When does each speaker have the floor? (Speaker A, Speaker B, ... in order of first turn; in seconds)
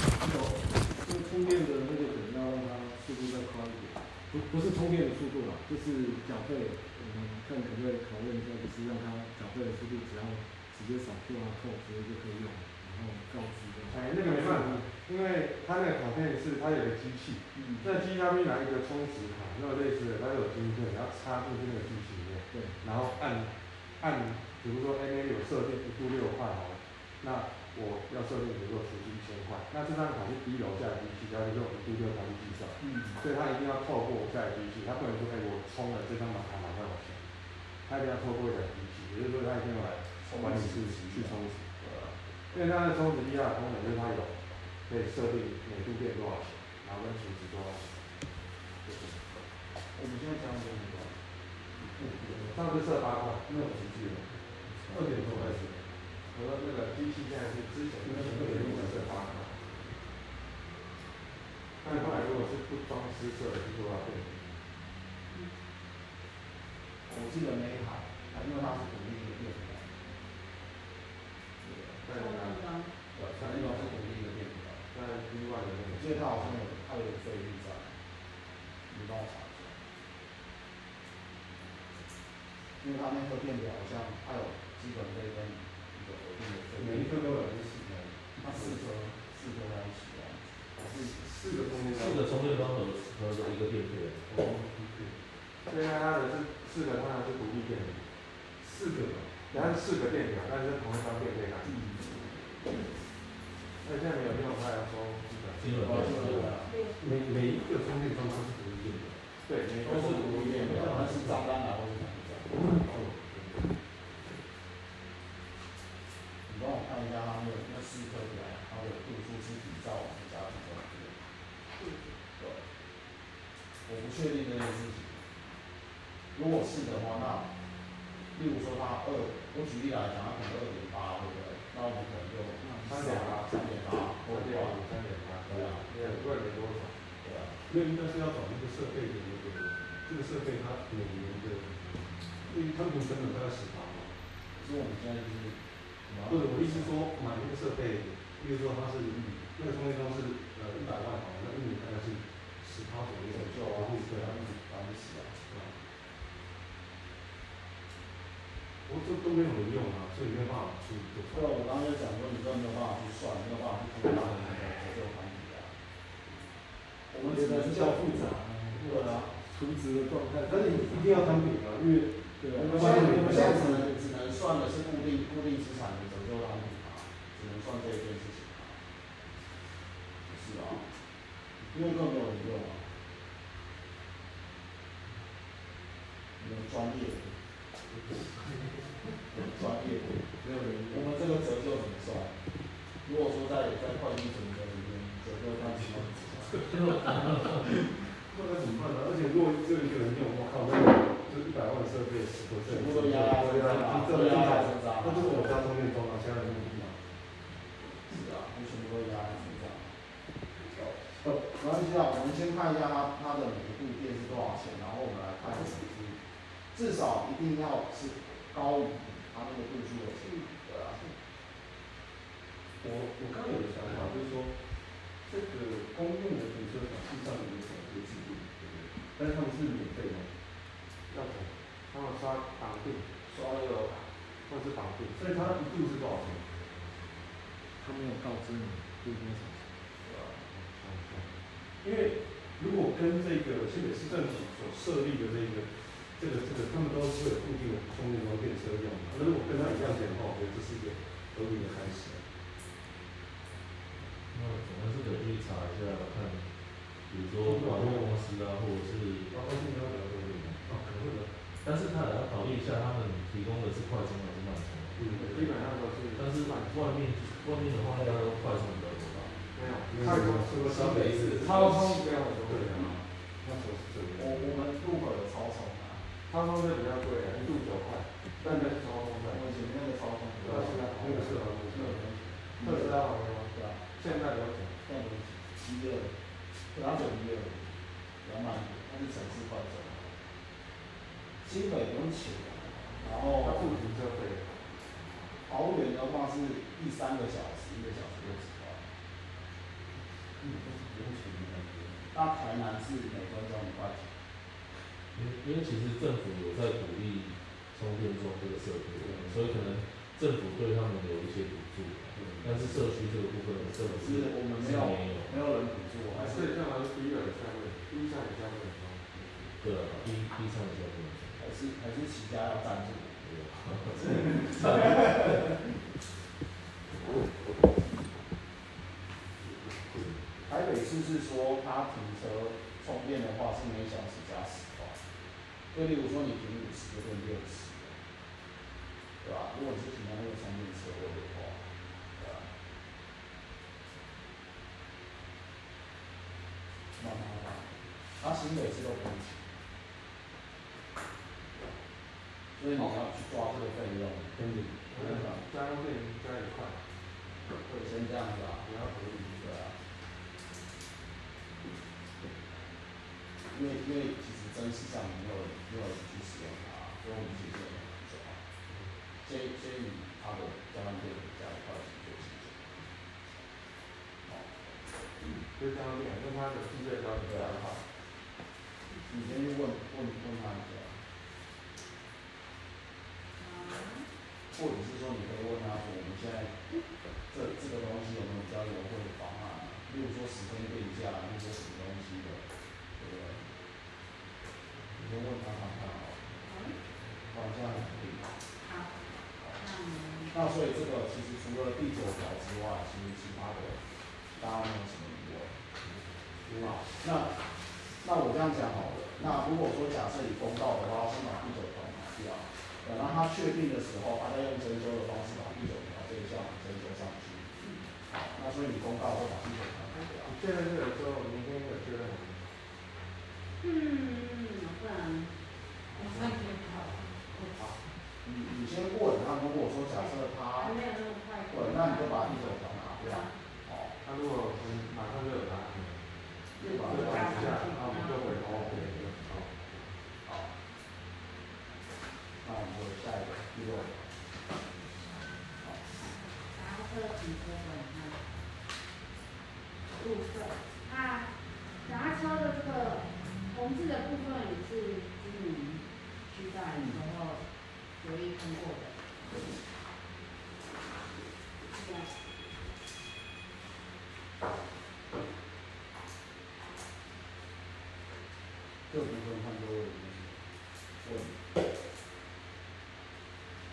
Speaker A: 0.2-14.8, 17.5-18.0, 22.5-22.8, 167.2-171.5, 172.4-173.9, 190.6-190.9, 237.8-239.7
Speaker B: 13.9-37.2, 37.8-41.7, 42.5-44.3, 44.9-47.9, 52.3-53.5, 56.3-59.6, 61.8-64.4, 72.0-72.6, 73.2-74.0, 74.9-76.6, 95.7-98.0, 99.5-102.0, 103.8-106.0, 109.4-111.2, 132.6-133.6, 134.2-136.9, 231.1-233.2, 234.5-235.6, 240.5-241.3, 265.1-267.1, 269.5-272.9, 276.3-279.4, 280.4-281.9, 282.6-284.8, 293.3-294.6, 316.1-319.0, 354.9-356.8, 358.6-359.1, 375.6-377.8, 420.2-422.5, 425.9-427.8, 434.0-436.0, 436.6-439.9
Speaker C: 32.8-33.2, 40.2-42.1, 49.9-51.1, 53.5-54.1, 67.0-69.9, 71.6-72.0, 73.1-74.8, 75.9-78.0, 78.9-79.8, 82.8-87.4, 88.4-91.3, 105.8-106.7, 109.8-112.6, 116.5-121.2, 122.4-122.6, 123.8-125.2, 126.3-127.5, 128.3-134.8, 135.5-136.2, 137.2-137.5, 144.6-146.9, 153.3-155.4, 161.3-165.7, 167.1-168.1, 168.7-169.3, 172.7-178.8, 180.2-180.9, 181.7-182.9, 186.4-187.3, 189.3-190.2, 190.9-192.3, 193.0-196.7, 202.6-205.7, 208.0-209.9, 210.7-216.2, 216.7-221.0, 233.2-234.1, 240.0-240.4, 274.1-276.1, 278.4-278.7, 279.3-284.2, 284.9-286.1, 286.7-287.7, 288.2-290.1, 291.4-293.8, 295.4-298.8, 302.1-304.1, 312.2-312.5, 313.9-316.6, 321.4-323.3, 323.9-325.3, 330.5-335.0, 335.7-338.0, 339.2-341.6, 342.1-342.5, 346.9-349.5, 352.6-354.4, 354.9-355.4, 357.7-359.7, 363.5-368.4, 369.2-372.7, 374.2-374.6, 377.3-377.6, 379.1-381.0, 384.5-386.6, 387.3-392.4, 393.0-393.4, 394.9-396.2, 397.3-398.3, 400.3-403.8, 404.4-405.5, 406.6-407.4, 408.0-417.5, 418.1-420.3, 428.2-430.7, 431.5-433.9, 436.6-437.7, 440.2-440.5, 442.4-444.0, 468.9-470.4, 471.0-471.3
Speaker D: 52.0-52.4, 53.5-54.0, 54.9-55.8, 58.0-59.2, 61.9-62.5, 86.7-88.8, 90.8-92.7, 94.3-95.2, 98.6-99.6, 107.0-109.2, 109.9-111.4, 112.6-113.7, 137.7-141.7, 142.4-144.1, 146.2-154.4, 155.5-155.7, 158.8-161.6, 170.4-173.9, 196.9-207.0, 222.8-224.5, 225.2-230.3, 235.1-236.4, 241.8-252.2, 257.4-258.1, 259.3-261.3, 265.0-265.6, 269.9-271.9, 272.4-274.6, 280.5-282.0, 300.4-302.0, 354.3-354.9, 406.4-406.8
Speaker E: 72.1-72.9, 106.7-107.0, 121.8-122.2, 383.4-384.1, 396.4-396.8, 398.6-399.0, 399.5-400.4, 423.6-425.3, 425.9-427.6, 430.5-433.3, 436.6-439.0, 446.5-448.2, 450.0-451.3, 451.8-457.4, 458.0-458.9, 461.7-462.1
Speaker F: 91.9-94.3, 105.6-106.5, 254.3-256.5, 257.1-259.3, 261.6-265.0, 266.1-269.3, 305.1-315.4, 319.6-321.4, 323.2-325.4, 329.6-330.2